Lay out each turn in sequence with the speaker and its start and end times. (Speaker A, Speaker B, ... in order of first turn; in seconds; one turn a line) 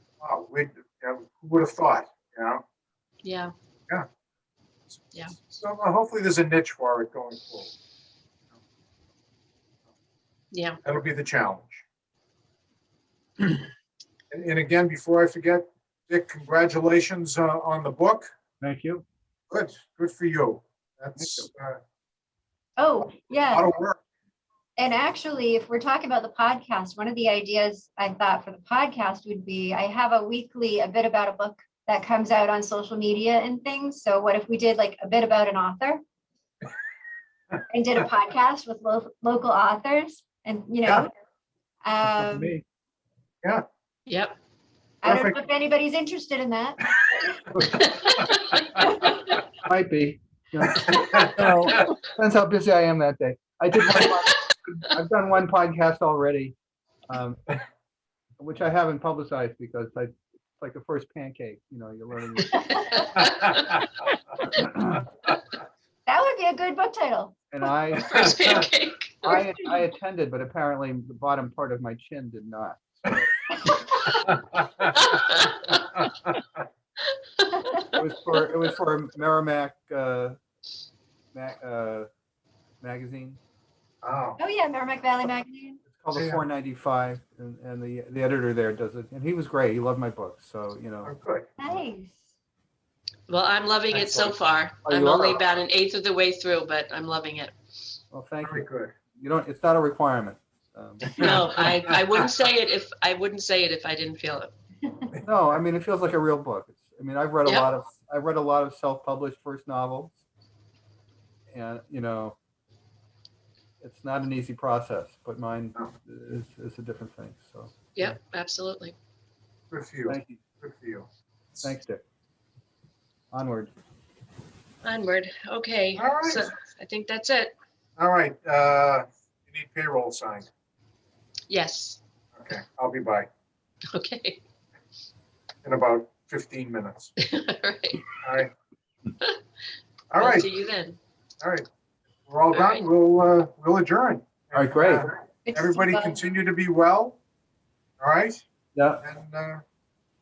Speaker A: 0.2-2.6
Speaker B: 3.2-3.5
Speaker A: 5.4-7.7
Speaker B: 10.5-10.8
Speaker A: 10.8-11.8
Speaker A: 14.3-18.3
Speaker C: 18.6-19.0
Speaker A: 19.5-21.8
Speaker C: 21.2-21.5
Speaker D: 22.8-23.7
Speaker A: 23.5-24.0
Speaker D: 24.8-36.0
Speaker D: 37.7-41.1
Speaker D: 41.8-42.5
Speaker C: 42.0-42.6
Speaker B: 44.1-44.4
Speaker D: 45.0-47.6
Speaker A: 45.0-45.4
Speaker C: 47.5-47.8
Speaker B: 47.8-48.4
Speaker D: 48.8-49.1
Speaker C: 49.6-56.5
Speaker A: 50.9-51.6
Speaker C: 57.1-57.6
Speaker C: 58.4-63.2
Speaker B: 62.5-63.6
Speaker C: 64.5-65.0
Speaker D: 66.1-67.5
Speaker C: 67.5-68.2
Speaker B: 68.0-69.4
Speaker C: 69.2-73.3
Speaker A: 74.2-74.9
Speaker B: 75.0-75.7
Speaker A: 76.0-76.3
Speaker B: 77.4-77.7
Speaker C: 77.9-80.4
Speaker C: 81.3-82.1
Speaker C: 82.8-83.4
Speaker A: 84.0-84.4
Speaker D: 84.4-85.8
Speaker C: 85.9-91.1
Speaker A: 86.1-86.4
Speaker A: 91.0-91.5
Speaker D: 91.6-92.2
Speaker B: 93.3-97.5
Speaker A: 93.9-94.4
Speaker C: 94.8-95.4
Speaker C: 98.1-101.2
Speaker A: 98.4-98.9
Speaker B: 101.2-104.5
Speaker C: 105.2-110.2
Speaker B: 107.4-107.7
Speaker C: 111.5-112.4
Speaker C: 113.8-118.2
Speaker B: 117.9-118.9
Speaker A: 119.7-121.1
Speaker C: 120.1-120.4
Speaker C: 121.6-122.0
Speaker C: 123.3-123.7
Speaker B: 124.8-127.5
Speaker A: 126.0-126.5
Speaker A: 128.0-130.5
Speaker B: 131.5-132.0
Speaker A: 132.3-133.3
Speaker B: 133.9-134.4
Speaker A: 135.6-137.1
Speaker B: 137.2-138.1
Speaker A: 138.2-138.5
Speaker A: 140.1-140.5
Speaker B: 140.2-141.0
Speaker A: 141.4-141.7
Speaker A: 142.3-147.2
Speaker B: 142.5-142.8
Speaker C: 144.5-145.1
Speaker D: 145.4-146.2
Speaker A: 148.0-148.4
Speaker C: 148.7-149.0
Speaker A: 149.0-149.6